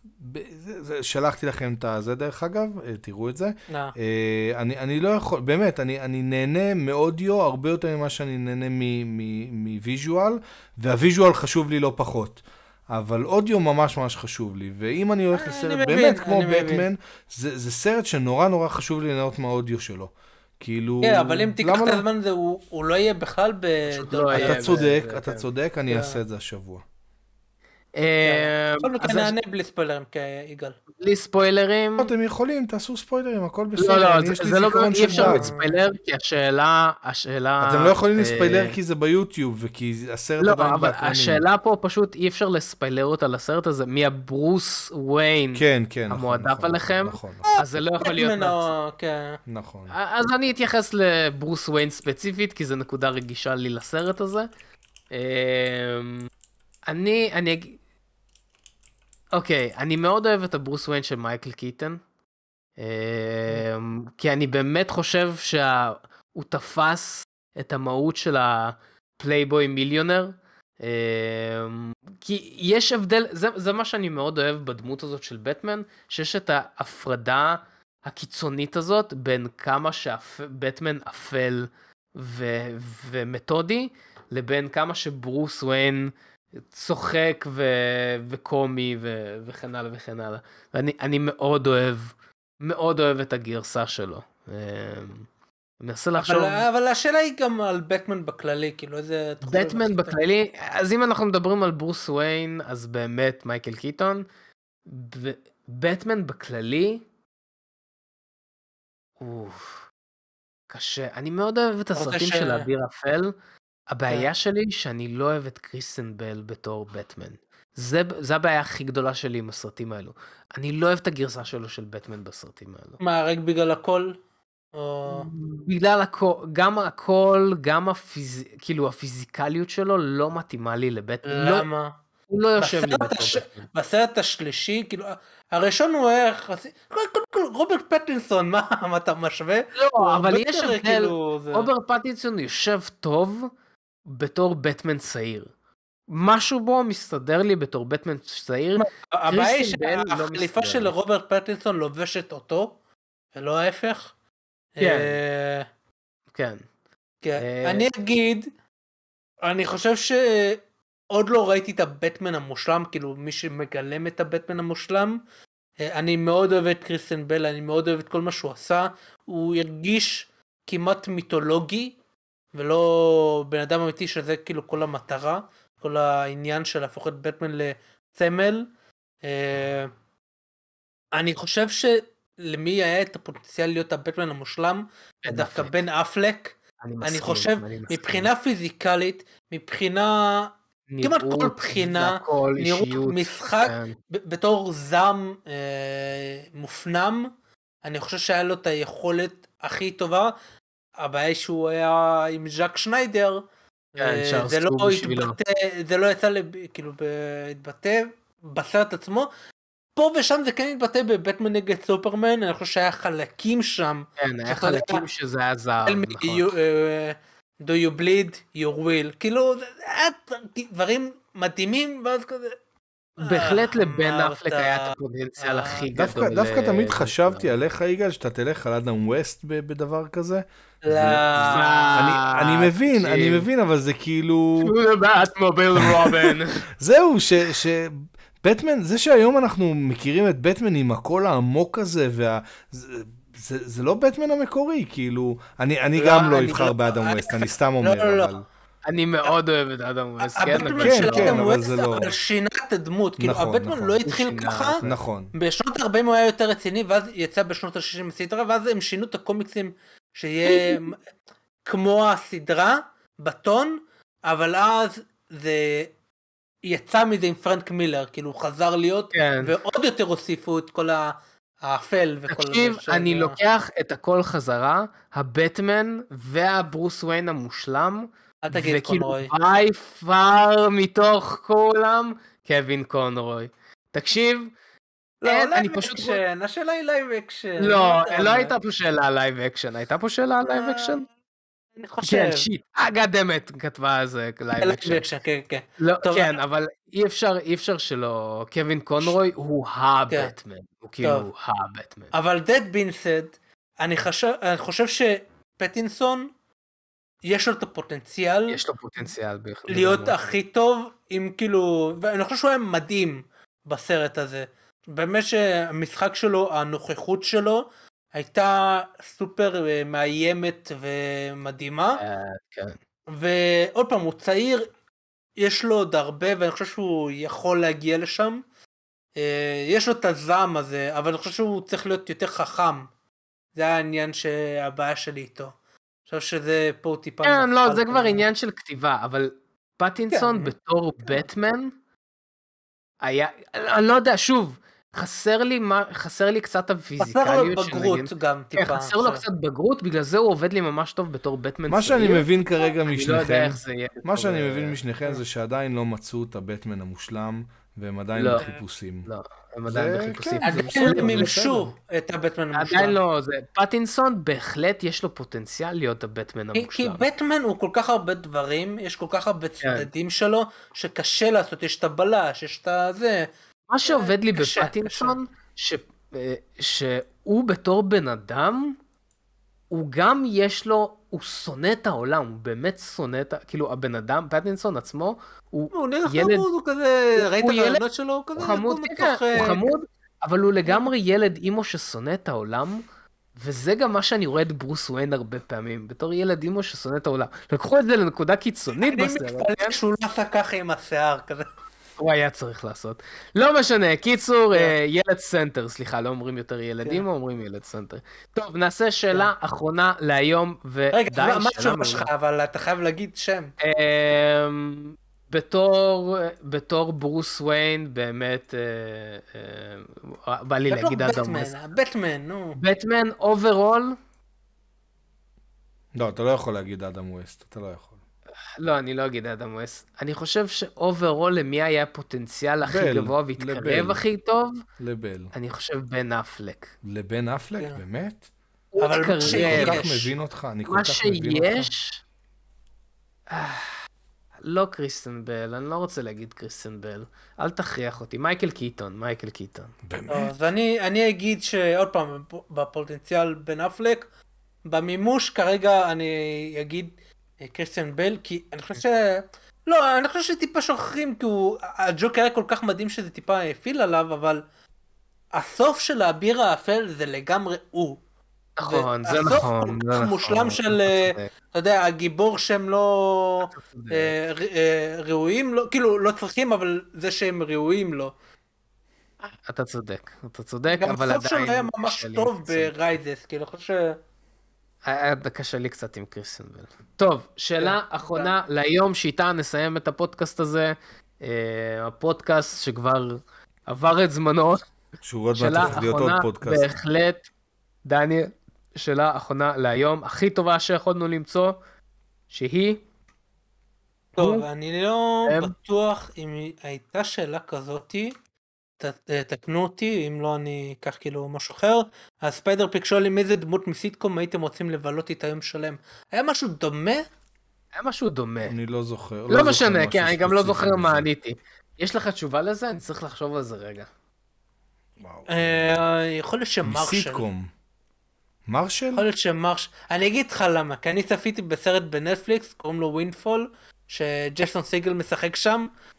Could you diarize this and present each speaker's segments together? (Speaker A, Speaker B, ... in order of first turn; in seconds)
Speaker A: 0.2-22.0, 24.3-26.8, 32.0-35.5, 37.6-41.4, 45.5-47.5, 49.5-49.9, 225.9-234.7, 235.8-248.4, 250.8-252.1, 253.2-254.0, 254.8-255.3, 351.7-359.1, 359.7-361.7, 425.9-427.9, 432.6-434.0, 434.8-435.3, 436.8-438.2, 439.2-441.7, 449.8-450.3, 495.0-496.7, 518.5-521.0, 525.0-525.8, 526.6-527.5, 528.5-529.0
Speaker B: 3.7-3.9, 15.3-16.9, 21.0-24.8, 25.9-26.2, 28.2-30.8, 35.1-35.7, 47.5-49.4, 96.2-100.2, 112.0-112.7, 123.0-124.2, 124.7-125.2, 131.2-131.9, 132.6-141.7, 148.8-152.7, 153.3-154.1, 154.8-155.7, 157.2-158.5, 159.4-160.6, 161.1-165.2, 165.8-171.9, 172.5-178.7, 179.2-179.9, 181.1-197.3, 197.8-200.3, 201.0-203.4, 203.9-209.3, 209.9-215.0, 215.8-222.6, 223.2-225.8, 230.8-232.0, 245.9-248.3, 250.2-254.8, 255.3-261.0, 261.6-265.9, 266.6-273.4, 278.4-279.3, 285.2-288.5, 290.4-291.0, 291.8-292.4, 294.6-296.4, 302.1-306.3, 307.2-308.6, 309.7-322.0, 323.1-324.7, 325.4-328.4, 329.1-332.9, 333.6-335.5, 336.1-338.2, 340.1-340.5, 347.0-349.2, 360.4-362.9, 366.5-373.3, 373.9-375.2, 385.7-389.7, 398.8-401.5, 410.9-413.5, 420.7-422.6, 438.8-440.1, 450.1-454.1, 454.6-464.4, 465.3-468.0, 468.6-478.1, 480.7-484.0, 487.6-488.3, 504.1-508.1, 508.8-517.0, 525.3-527.2, 528.9-535.7
Speaker C: 23.9-25.4, 28.0-29.4, 31.0-32.1, 33.8-38.8, 40.4-48.7, 49.9-54.5, 55.1-56.3, 56.9-57.8, 59.3-62.0, 62.8-86.1, 86.7-95.3, 95.8-96.6, 99.4-104.2, 104.9-107.0, 109.2-109.9, 110.7-113.3, 113.9-123.0, 125.1-131.7, 132.3-133.7, 139.8-143.5, 144.1-145.5, 146.1-150.9, 154.8-155.2, 156.3-156.6, 157.4-157.8, 185.2-185.7, 186.8-188.3, 190.9-193.9, 204.0-205.3, 214.2-216.5, 223.2-227.5, 231.4-233.4, 234.6-236.6, 248.9-251.4, 254.1-255.0, 260.5-260.8, 269.1-269.5, 272.3-284.5, 285.2-286.2, 287.6-291.1, 292.0-295.0, 295.8-302.1, 308.5-310.3, 322.0-322.8, 337.2-341.7, 343.0-352.2, 352.8-354.8, 358.1-358.5, 359.1-361.4, 362.5-367.0, 369.6-369.9, 373.7-378.8, 379.7-386.5, 387.2-387.8, 388.4-392.8, 393.4-399.8, 402.0-412.1, 413.6-421.5, 422.6-424.0, 428.6-434.6, 435.3-436.7, 438.7-439.8, 440.7-442.0, 443.3-443.7, 444.4-449.7, 468.6-471.3, 473.4-474.1, 479.4-482.7, 484.9-494.7, 495.3-497.3, 497.8-501.6, 502.3-502.8, 504.2-504.4, 505.2-505.5, 517.8-518.5, 519.3-523.9